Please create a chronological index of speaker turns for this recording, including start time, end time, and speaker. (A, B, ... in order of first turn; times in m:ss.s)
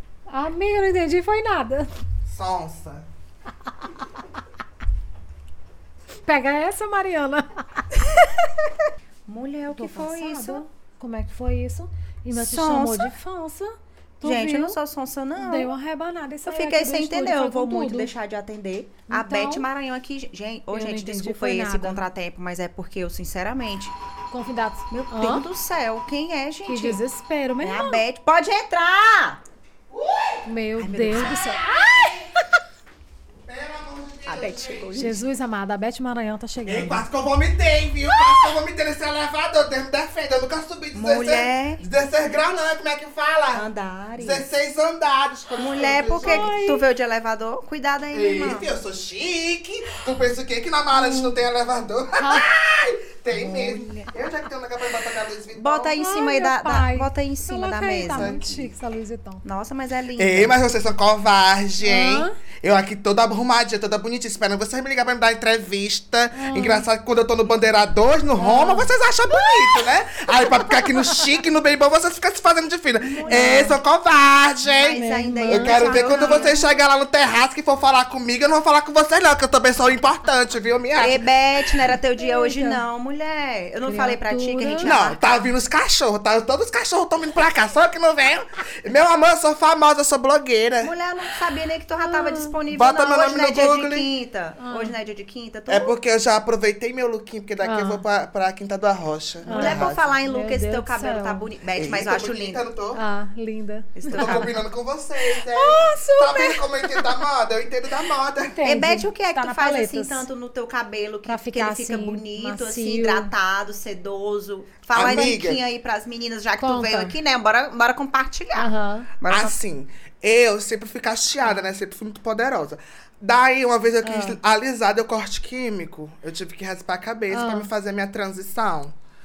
0:00.3-0:01.9 A
0:02.3-0:03.0 B
0:06.2-0:07.8 A
0:09.3-0:10.6 C
0:09.7-0:14.8 A
0:12.4-0:13.1 C
0:14.2-0:15.7 C
0:15.4-0:18.1 A
0:16.5-0:23.9 C
0:19.1-0:19.6 A
0:20.7-0:22.0 A
0:24.3-0:25.4 A
0:24.9-0:27.0 C
0:26.7-0:28.0 A
0:27.6-0:29.4 C
0:29.9-0:30.4 B
0:30.4-0:32.1 A
0:30.8-0:31.8 C
0:31.9-0:32.3 B
0:33.4-0:35.1 B
0:34.3-0:35.2 C
0:34.9-0:37.0 A
0:36.7-0:43.6 B
0:40.9-0:41.8 C
0:43.5-0:44.4 C
0:44.2-0:46.5 B
0:45.6-0:48.6 C
0:46.2-0:46.8 A
0:48.1-0:55.9 B
0:50.9-0:51.3 A
0:52.2-0:52.5 A
0:53.3-0:54.1 A
0:55.5-0:58.4 C
0:56.0-0:59.4 A
0:58.1-0:58.6 B
0:59.4-1:00.6 C
1:00.2-1:21.2 B
1:01.8-1:02.3 A
1:06.3-1:06.8 A
1:08.4-1:09.5 A
1:13.0-1:13.8 A
1:14.7-1:16.6 C
1:14.8-1:16.6 A
1:21.0-1:25.4 C
1:22.2-1:22.8 A
1:23.8-1:24.9 A
1:24.8-1:30.9 B
1:30.8-1:36.0 C
1:32.0-1:32.5 A
1:32.7-1:34.1 B
1:34.6-1:34.9 A
1:35.7-1:40.1 B
1:37.6-1:38.0 A
1:39.4-1:41.4 A
1:39.5-1:42.6 C
1:41.7-1:43.0 B
1:42.9-1:44.5 A
1:44.0-1:44.5 C
1:44.1-1:48.6 B
1:45.2-1:47.2 A
1:48.4-1:50.2 A
1:48.6-1:59.6 C
1:51.2-1:53.3 A
1:54.9-1:55.6 B
1:56.6-1:57.1 A
1:58.5-1:59.1 A
1:59.2-2:08.9 B
2:04.0-2:04.4 A
2:07.3-2:07.7 A